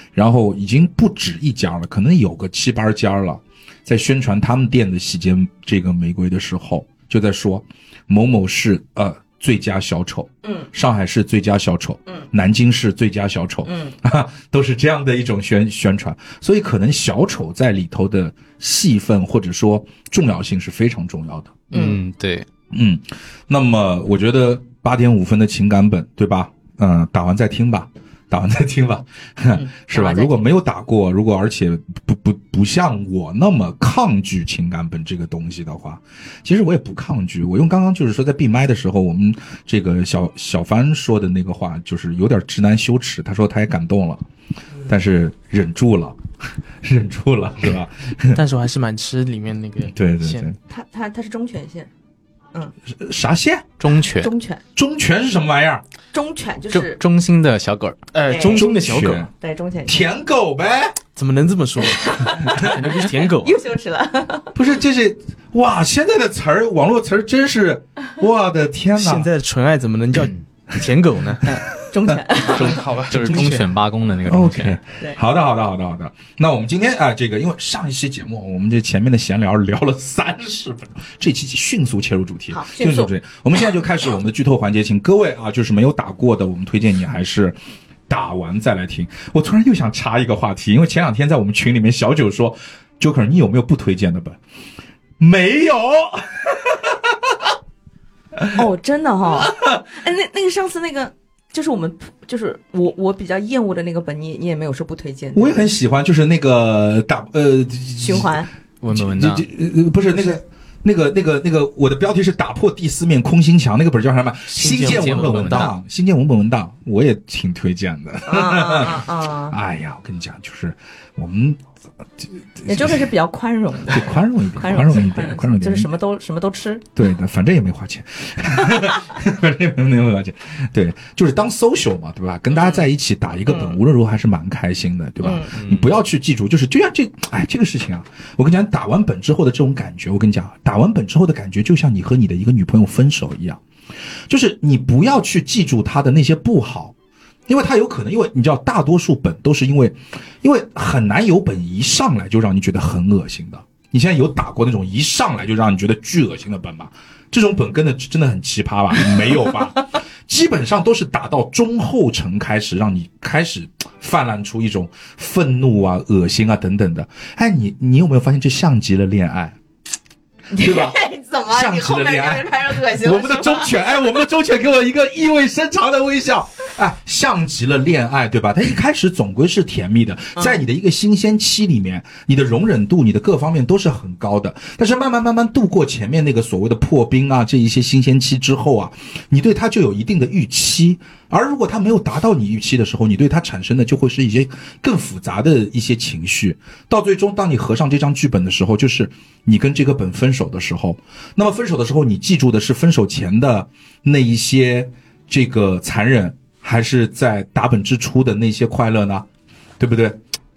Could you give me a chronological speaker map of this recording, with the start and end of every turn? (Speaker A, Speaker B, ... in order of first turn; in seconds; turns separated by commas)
Speaker A: 0.1-21.6, Speaker B: 10.4-10.7, Speaker B: 13.6-13.9, Speaker C: 21.7-22.5, Speaker B: 21.7-22.0, Speaker A: 22.7-44.2, Speaker B: 29.5-30.5, Speaker A: 44.8-46.2, Speaker A: 46.8-48.4, Speaker D: 48.3-50.5, Speaker A: 49.9-50.6, Speaker B: 50.7-51.9, Speaker A: 52.9-53.7, Speaker C: 53.8-54.3, Speaker B: 54.2-54.6, Speaker A: 54.8-55.8, Speaker B: 56.1-57.0, Speaker C: 56.7-58.0, Speaker D: 58.1-59.3, Speaker B: 58.3-58.7, Speaker A: 58.5-59.3, Speaker B: 59.4-60.0, Speaker A: 59.9-61.0, Speaker D: 61.1-63.6, Speaker A: 62.4-62.8, Speaker B: 63.3-64.5, Speaker A: 64.5-69.3, Speaker D: 69.0-71.6, Speaker B: 71.5-72.8, Speaker D: 72.4-73.7, Speaker C: 73.1-74.8, Speaker A: 74.2-87.5, Speaker B: 82.5-83.1, Speaker A: 88.1-94.4, Speaker A: 95.2-97.5, Speaker A: 98.3-98.6, Speaker B: 98.5-105.7, Speaker A: 99.4-99.8, Speaker A: 105.3-121.6, Speaker B: 108.0-108.5, Speaker C: 108.8-109.5, Speaker D: 114.5-115.7, Speaker C: 114.8-115.7, Speaker B: 118.2-119.5, Speaker A: 122.2-123.1, Speaker B: 122.7-126.9, Speaker A: 123.9-125.9, Speaker A: 127.0-143.6, Speaker B: 132.5-132.8, Speaker B: 133.5-133.8, Speaker B: 135.2-135.5, Speaker C: 135.5-135.9, Speaker A: 144.3-146.9, Speaker A: 147.5-169.6, Speaker B: 170.5-174.0, Speaker A: 170.5-171.0, Speaker A: 171.5-209.2, Speaker A: 209.8-210.2